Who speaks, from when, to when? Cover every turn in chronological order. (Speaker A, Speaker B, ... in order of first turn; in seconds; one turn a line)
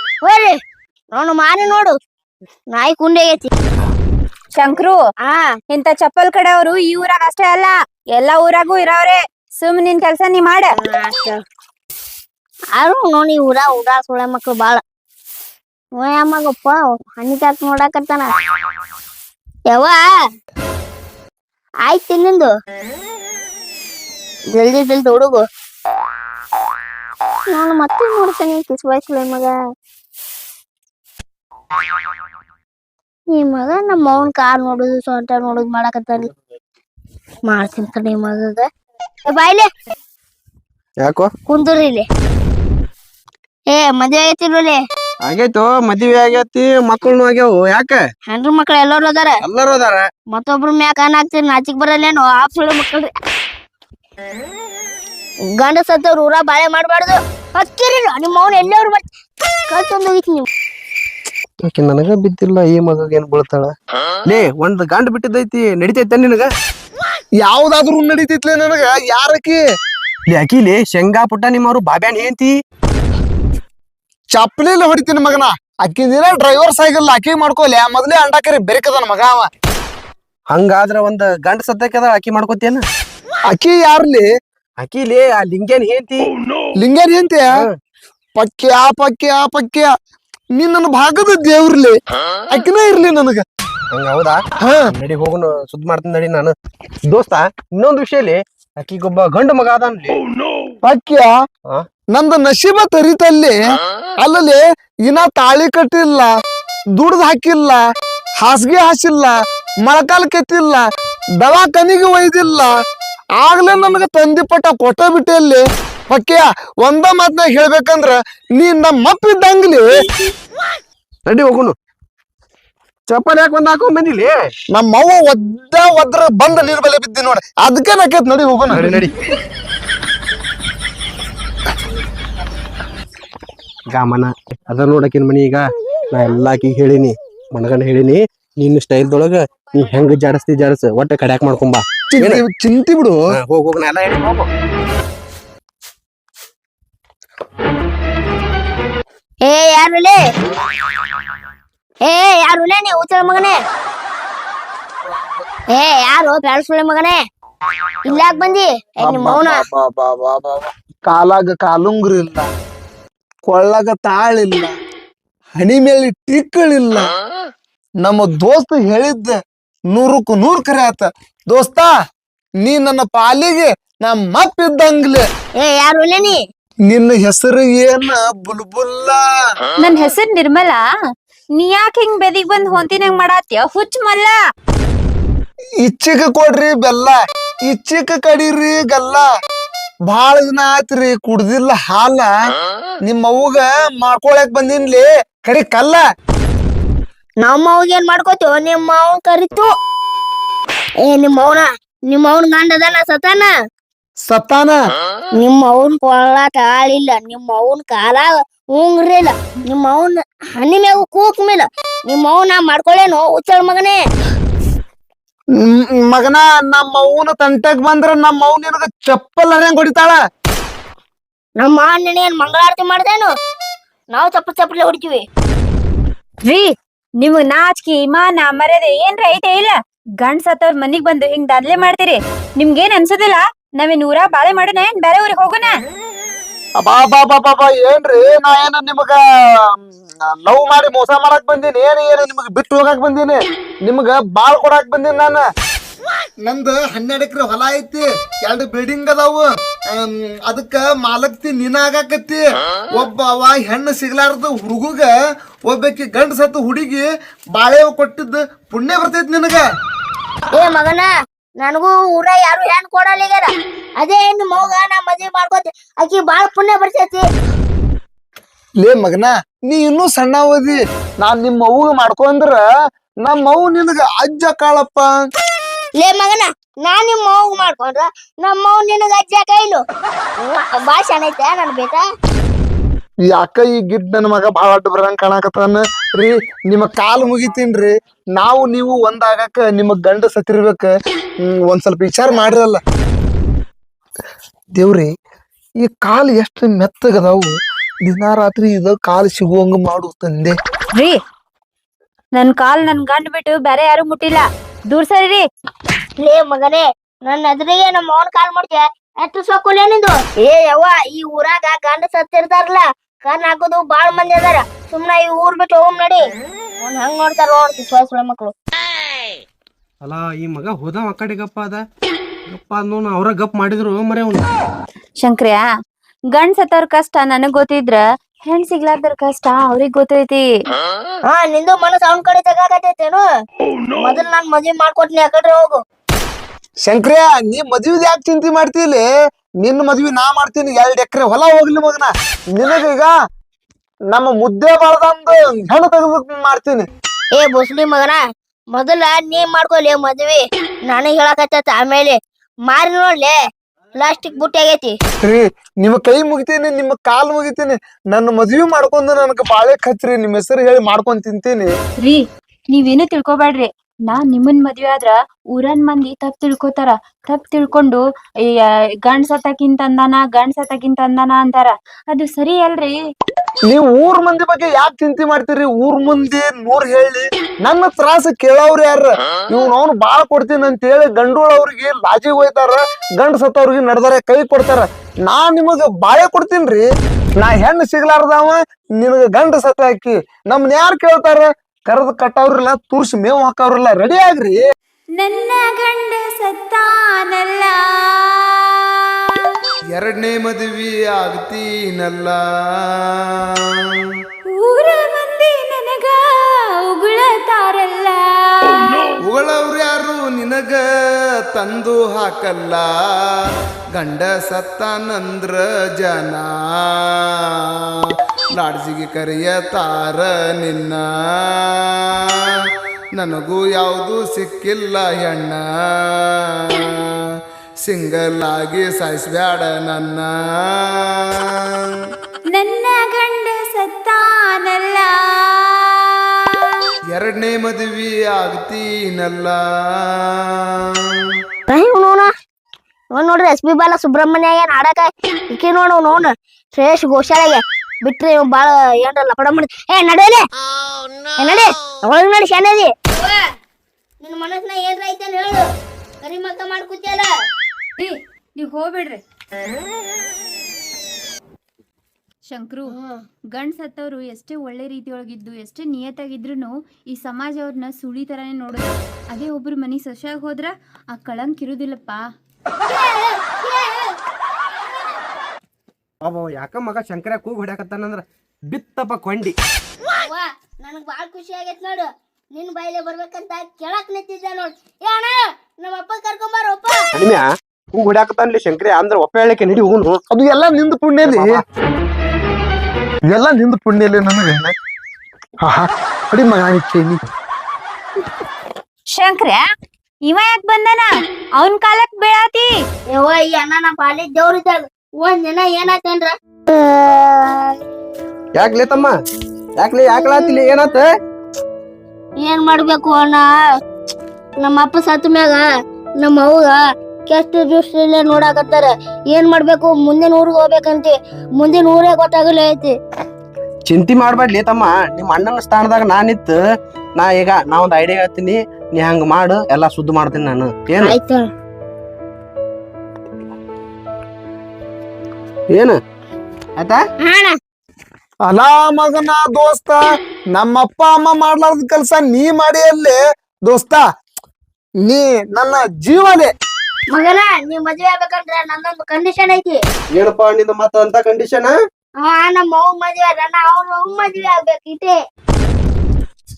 Speaker A: 0.2-0.6
Speaker A: 1.1-1.9
Speaker A: 2.7-3.5
Speaker B: 4.5-5.0
Speaker B: 5.7-10.8
Speaker A: 10.8-11.4
Speaker A: 12.8-14.8
Speaker A: 16.0-18.3
Speaker A: 19.7-20.1
Speaker A: 21.9-22.5
Speaker A: 24.5-25.4
Speaker A: 27.5-29.6
Speaker A: 33.3-36.3
Speaker A: 37.5-38.7
Speaker A: 39.2-39.7
Speaker C: 41.0-41.3
Speaker A: 41.5-42.0
Speaker A: 43.7-44.8
Speaker C: 45.2-48.0
Speaker A: 48.3-49.4
Speaker C: 49.4-50.0
Speaker A: 50.3-53.1
Speaker A: 55.6-59.0
Speaker A: 59.7-60.5
Speaker C: 61.7-63.7
Speaker C: 64.2-66.5
Speaker D: 67.4-69.6
Speaker C: 70.3-72.5
Speaker D: 74.3-79.5
Speaker C: 80.5-82.8
Speaker D: 83.5-84.3
Speaker C: 84.8-86.3
Speaker D: 86.8-87.5
Speaker D: 88.3-89.9
Speaker D: 90.6-92.0
Speaker D: 92.5-93.4
Speaker C: 93.9-96.5
Speaker D: 94.6-94.8
Speaker C: 97.1-100.2
Speaker D: 100.8-101.3
Speaker D: 102.1-103.6
Speaker D: 104.2-106.3
Speaker D: 107.0-107.8
Speaker D: 108.4-110.8
Speaker D: 111.4-112.7
Speaker D: 113.4-120.1
Speaker C: 121.3-121.7
Speaker C: 123.1-124.3
Speaker D: 124.7-128.8
Speaker C: 128.7-129.1
Speaker C: 133.9-142.4
Speaker D: 142.1-143.2
Speaker C: 143.3-144.5
Speaker A: 149.4-150.2
Speaker A: 152.0-153.6
Speaker A: 155.7-157.2
Speaker A: 158.1-159.6
Speaker D: 159.0-162.5
Speaker D: 163.5-164.7
Speaker D: 165.6-167.1
Speaker D: 168.0-169.3
Speaker D: 169.9-171.9
Speaker D: 172.6-175.2
Speaker A: 175.6-176.4
Speaker D: 176.9-179.2
Speaker B: 179.8-180.8
Speaker B: 181.6-184.3
Speaker D: 185.8-189.3
Speaker D: 190.1-192.3
Speaker D: 193.1-196.0
Speaker A: 197.4-199.7
Speaker A: 201.0-203.5
Speaker D: 204.3-204.8
Speaker A: 205.4-214.0
Speaker D: 215.6-220.2
Speaker A: 221.6-223.3
Speaker A: 224.1-225.2
Speaker B: 226.4-235.7
Speaker D: 236.8-239.2
Speaker D: 240.4-245.4
Speaker D: 246.4-255.1
Speaker D: 255.7-259.6
Speaker A: 260.5-261.1
Speaker A: 261.6-267.2
Speaker D: 268.8-272.6
Speaker D: 273.2-275.1
Speaker A: 276.0-279.8
Speaker A: 280.4-282.0
Speaker D: 283.3-290.9
Speaker D: 291.4-292.8
Speaker D: 294.8-295.1
Speaker D: 295.8-297.5
Speaker D: 298.0-300.5
Speaker B: 302.3-305.4
Speaker A: 306.2-316.2
Speaker A: 316.8-318.5
Speaker C: 320.0-321.8
Speaker C: 322.5-324.5
Speaker B: 325.2-325.6
Speaker B: 326.3-330.4
Speaker A: 331.3-333.2
Speaker A: 334.0-335.8
Speaker D: 336.8-339.0
Speaker D: 339.6-343.1
Speaker D: 344.1-346.8
Speaker A: 347.3-348.2
Speaker A: 348.7-352.2
Speaker A: 352.7-353.4
Speaker A: 354.0-354.9
Speaker D: 355.2-361.7
Speaker B: 362.0-368.0
Speaker B: 369.0-373.0
Speaker D: 373.7-386.9
Speaker D: 387.4-394.6
Speaker B: 395.2-398.6
Speaker D: 399.9-403.6
Speaker B: 404.5-409.1
Speaker D: 409.2-413.4
Speaker D: 413.9-417.5
Speaker D: 418.5-422.3
Speaker D: 423.1-427.1
Speaker D: 427.8-431.4
Speaker B: 432.5-435.9
Speaker D: 437.1-440.6
Speaker A: 441.7-442.3
Speaker A: 443.1-450.4
Speaker A: 451.4-453.4
Speaker A: 454.2-455.7
Speaker A: 456.2-457.3
Speaker B: 458.0-459.2
Speaker B: 462.4-463.0
Speaker A: 462.9-463.2
Speaker B: 463.5-472.2
Speaker A: 472.9-474.2
Speaker C: 476.2-479.5
Speaker A: 480.1-487.0
Speaker C: 487.1-490.2
Speaker D: 490.3-491.5
Speaker C: 491.2-491.6
Speaker D: 493.3-494.7
Speaker D: 495.6-497.2
Speaker B: 499.1-499.6
Speaker B: 500.2-502.7
Speaker A: 503.1-507.8
Speaker C: 508.6-509.1
Speaker C: 509.8-511.1
Speaker A: 512.4-513.5
Speaker A: 514.6-515.6
Speaker A: 516.2-523.0
Speaker C: 523.9-526.6
Speaker C: 527.2-531.1
Speaker A: 531.0-531.5
Speaker C: 535.7-536.0
Speaker A: 537.2-537.6
Speaker D: 538.5-544.0
Speaker D: 545.0-546.5
Speaker A: 547.1-549.8
Speaker C: 550.1-551.7
Speaker A: 552.2-555.2